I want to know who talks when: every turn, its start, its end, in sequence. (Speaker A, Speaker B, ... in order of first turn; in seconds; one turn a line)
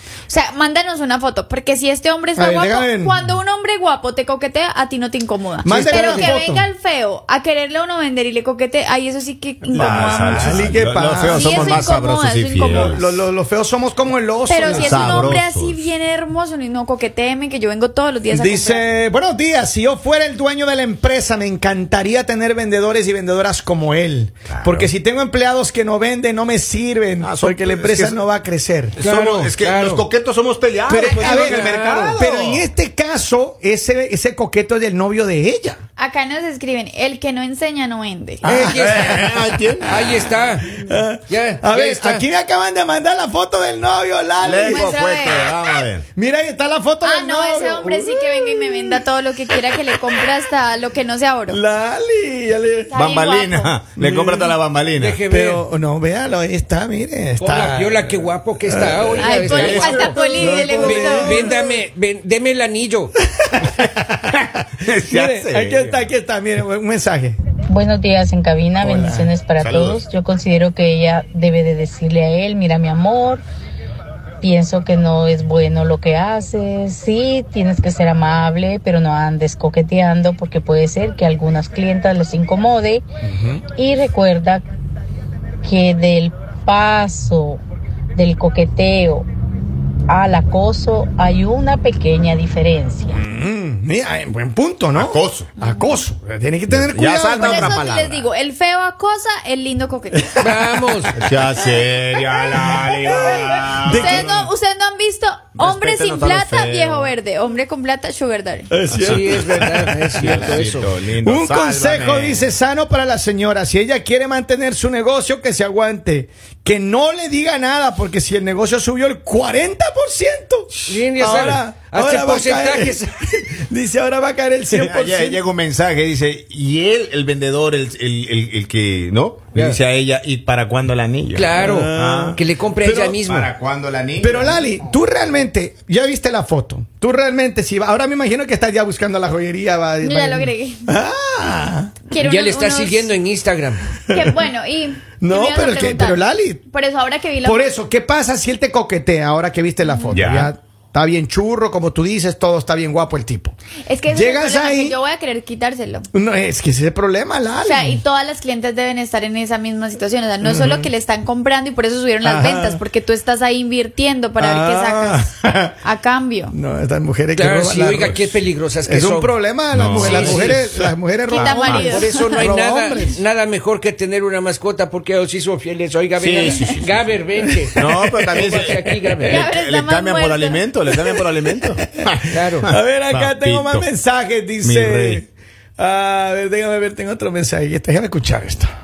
Speaker A: 0.3-10.8
Speaker B: 2.4-3.2
Speaker B: 5.6-6.7
Speaker C: 5.7-6.4
Speaker B: 9.7-11.9
Speaker D: 9.7-13.2
Speaker A: 11.3-13.1
Speaker B: 12.7-15.4
Speaker A: 14.5-18.8
Speaker D: 14.6-15.8
Speaker B: 18.3-29.0
Speaker D: 24.5-24.9
Speaker D: 27.2-28.2
Speaker D: 28.9-32.7
Speaker C: 29.0-30.1
Speaker B: 30.9-35.8
Speaker C: 31.0-32.2
Speaker A: 36.0-38.4
Speaker B: 38.4-44.9
Speaker C: 38.4-39.1
Speaker D: 38.8-39.9
Speaker C: 39.8-42.2
Speaker D: 44.4-46.0
Speaker A: 44.6-45.5
Speaker B: 46.1-49.0
Speaker A: 47.0-51.6
Speaker B: 49.8-50.2
Speaker B: 51.5-53.0
Speaker A: 52.9-53.7
Speaker D: 52.9-55.2
Speaker B: 54.0-54.6
Speaker C: 55.0-55.6
Speaker B: 55.2-58.0
Speaker C: 57.4-63.1
Speaker B: 58.6-61.7
Speaker A: 59.2-61.6
Speaker D: 59.5-60.1
Speaker B: 63.4-64.1
Speaker D: 64.3-66.0
Speaker B: 65.0-67.4
Speaker E: 67.7-73.4
Speaker B: 68.8-69.3
Speaker D: 69.6-70.0
Speaker E: 74.4-83.0
Speaker B: 83.3-83.6
Speaker E: 83.8-84.6
Speaker E: 85.6-87.6
Speaker E: 88.2-89.2
Speaker E: 90.1-93.2
Speaker B: 93.1-97.7
Speaker D: 94.9-95.5
Speaker A: 95.6-96.0
Speaker D: 96.7-98.3
Speaker A: 97.4-100.5
Speaker C: 100.4-101.1
Speaker D: 101.1-104.3
Speaker B: 102.7-104.5
Speaker A: 103.8-108.7
Speaker D: 105.6-107.1
Speaker B: 108.7-110.7
Speaker D: 108.9-109.5
Speaker C: 109.0-110.9
Speaker D: 110.1-112.5
Speaker B: 111.2-125.4
Speaker C: 120.9-123.1
Speaker D: 124.7-132.4
Speaker C: 129.5-129.8
Speaker C: 131.3-133.5
Speaker B: 131.5-133.2
Speaker D: 133.2-134.6
Speaker B: 134.2-141.9
Speaker A: 140.0-140.9
Speaker A: 142.1-143.1
Speaker C: 142.2-143.9
Speaker A: 144.1-147.7
Speaker B: 145.2-146.6
Speaker B: 147.4-153.5
Speaker A: 149.9-150.2
Speaker D: 150.1-150.5
Speaker A: 153.9-156.1
Speaker B: 154.1-155.0
Speaker B: 156.1-158.0
Speaker A: 157.6-165.3
Speaker B: 160.4-160.9
Speaker B: 162.2-162.8
Speaker B: 164.4-165.8
Speaker A: 165.8-166.5
Speaker B: 166.5-168.3
Speaker C: 167.3-169.4
Speaker B: 168.8-173.2
Speaker D: 169.7-170.9
Speaker C: 169.9-170.6
Speaker A: 170.0-170.3
Speaker A: 171.3-172.4
Speaker C: 171.6-179.5
Speaker D: 176.2-177.1
Speaker D: 177.8-183.9
Speaker B: 177.8-178.4
Speaker A: 179.2-180.6
Speaker C: 182.3-182.7
Speaker B: 182.7-188.7
Speaker D: 184.6-185.2